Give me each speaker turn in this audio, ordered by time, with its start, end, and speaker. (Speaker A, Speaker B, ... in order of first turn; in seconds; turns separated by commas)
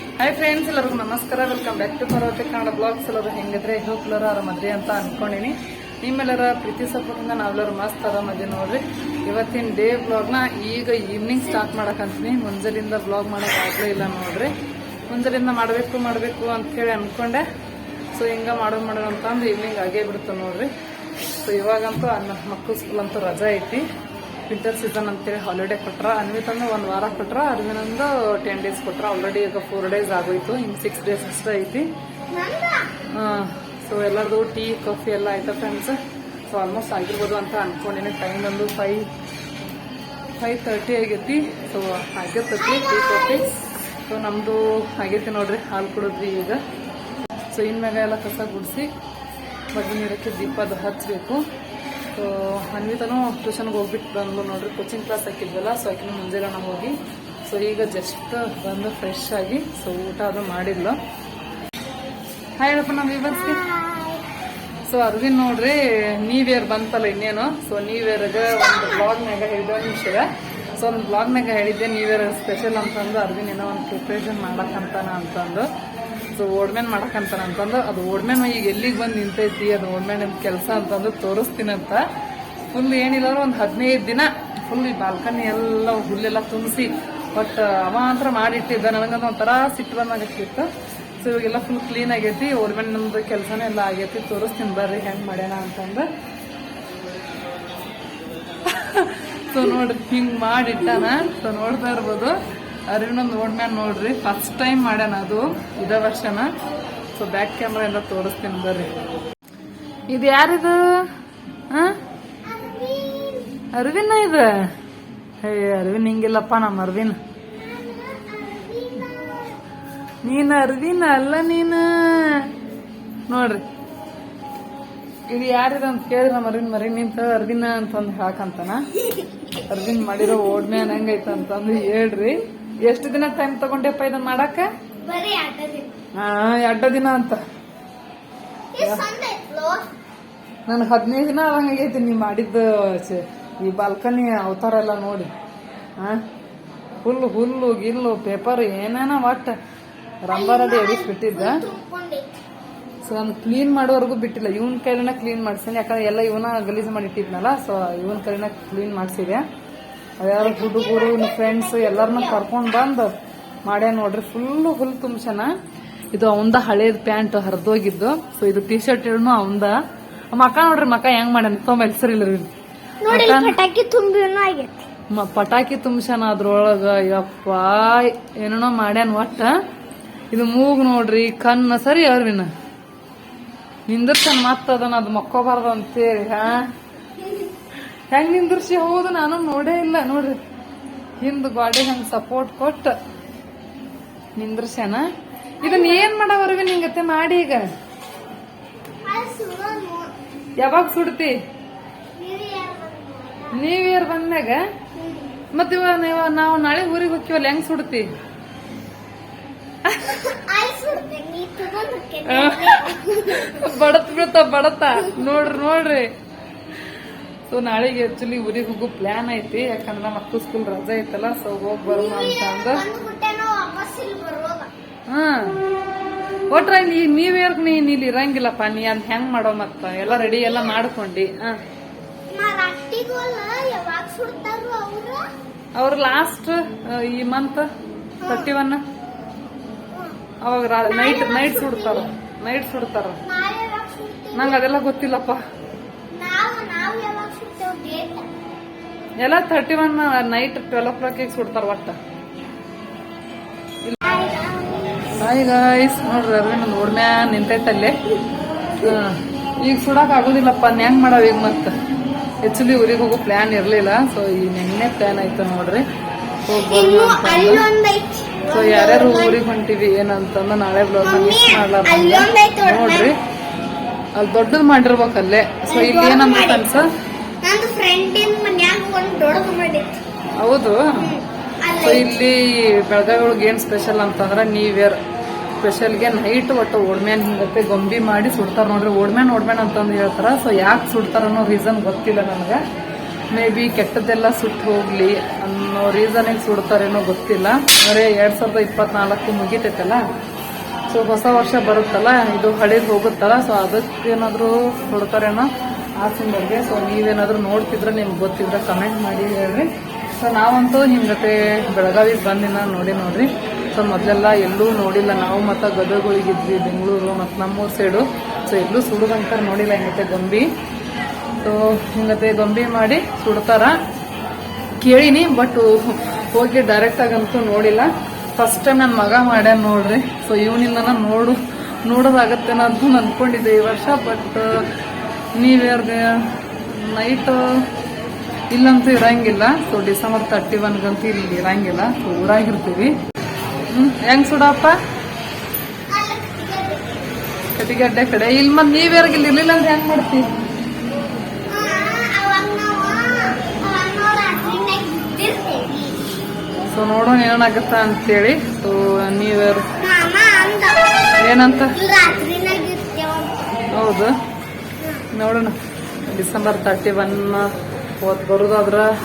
Speaker A: 0.2-14.5, Speaker A: 15.1-17.4, Speaker A: 18.1-20.7, Speaker A: 21.4-23.9, Speaker A: 24.5-31.9, Speaker B: 32.3-32.9, Speaker A: 33.1-36.0, Speaker A: 36.5-39.1, Speaker A: 40.4-43.4, Speaker B: 42.6-43.7, Speaker A: 44.1-46.6, Speaker A: 47.5-48.9, Speaker A: 49.7-51.4, Speaker A: 52.1-61.0, Speaker A: 62.6-63.6, Speaker B: 63.3-64.2, Speaker A: 64.9-70.3, Speaker A: 70.8-75.7, Speaker A: 76.3-82.0, Speaker A: 82.7-90.7, Speaker A: 91.2-96.1, Speaker A: 98.7-102.3, Speaker A: 102.9-106.5, Speaker A: 107.2-108.9, Speaker A: 110.1-110.8, Speaker A: 111.7-112.0, Speaker B: 112.5-113.5, Speaker A: 113.7-114.5, Speaker A: 115.4-117.2, Speaker B: 117.6-119.6, Speaker A: 120.2-122.5, Speaker A: 123.3-123.6, Speaker A: 125.3-128.8, Speaker A: 129.7-134.7, Speaker B: 135.0-136.0, Speaker A: 136.2-137.4, Speaker B: 138.7-139.9, Speaker A: 138.8-139.1, Speaker A: 140.7-145.3, Speaker A: 147.0-149.6, Speaker A: 150.2-151.6, Speaker B: 150.3-152.4, Speaker A: 153.0-159.4, Speaker A: 160.2-163.1, Speaker B: 160.4-162.4, Speaker A: 163.7-165.5, Speaker A: 166.1-169.7, Speaker A: 170.3-172.5, Speaker B: 173.0-174.8, Speaker A: 173.1-173.6, Speaker A: 175.1-179.5, Speaker A: 180.3-182.5, Speaker A: 183.9-186.6, Speaker A: 188.1-190.4, Speaker A: 191.2-192.9, Speaker A: 194.4-195.1, Speaker B: 195.6-196.1, Speaker A: 195.6-197.7, Speaker B: 199.0-200.1, Speaker A: 200.6-201.3, Speaker B: 202.2-203.6, Speaker A: 203.5-204.6, Speaker B: 204.9-205.4, Speaker A: 205.5-208.1, Speaker A: 209.9-210.2, Speaker B: 210.0-213.7, Speaker A: 212.3-216.1, Speaker A: 217.5-222.8, Speaker B: 221.9-224.7, Speaker A: 225.1-225.6, Speaker A: 226.5-231.6, Speaker B: 230.2-230.8, Speaker B: 232.3-235.2, Speaker A: 235.8-237.7, Speaker B: 238.2-238.5, Speaker A: 238.3-238.8, Speaker B: 239.9-240.2, Speaker A: 240.4-243.2, Speaker B: 240.8-242.1, Speaker B: 243.3-244.6, Speaker A: 244.3-245.4, Speaker B: 246.1-248.3, Speaker A: 249.2-252.0, Speaker B: 254.0-255.2, Speaker A: 255.2-257.9, Speaker A: 258.8-261.7, Speaker A: 262.4-265.9, Speaker A: 266.5-267.7, Speaker B: 266.5-269.4, Speaker A: 268.5-273.1, Speaker B: 271.0-273.1, Speaker A: 274.2-276.9, Speaker B: 275.7-276.6, Speaker B: 277.4-280.0, Speaker A: 280.4-281.1, Speaker B: 281.0-282.1, Speaker A: 281.8-285.0, Speaker A: 285.6-292.6, Speaker A: 293.3-300.0, Speaker A: 300.9-305.5, Speaker A: 306.0-320.5, Speaker A: 321.4-323.8, Speaker A: 324.8-334.6, Speaker A: 335.4-336.1, Speaker A: 336.7-337.4, Speaker A: 338.5-342.9, Speaker A: 343.7-344.8, Speaker B: 345.9-347.1, Speaker A: 347.5-350.3, Speaker B: 351.5-356.0, Speaker A: 356.7-359.6, Speaker B: 359.8-363.7, Speaker A: 361.2-361.7, Speaker A: 363.7-364.1, Speaker A: 365.1-368.9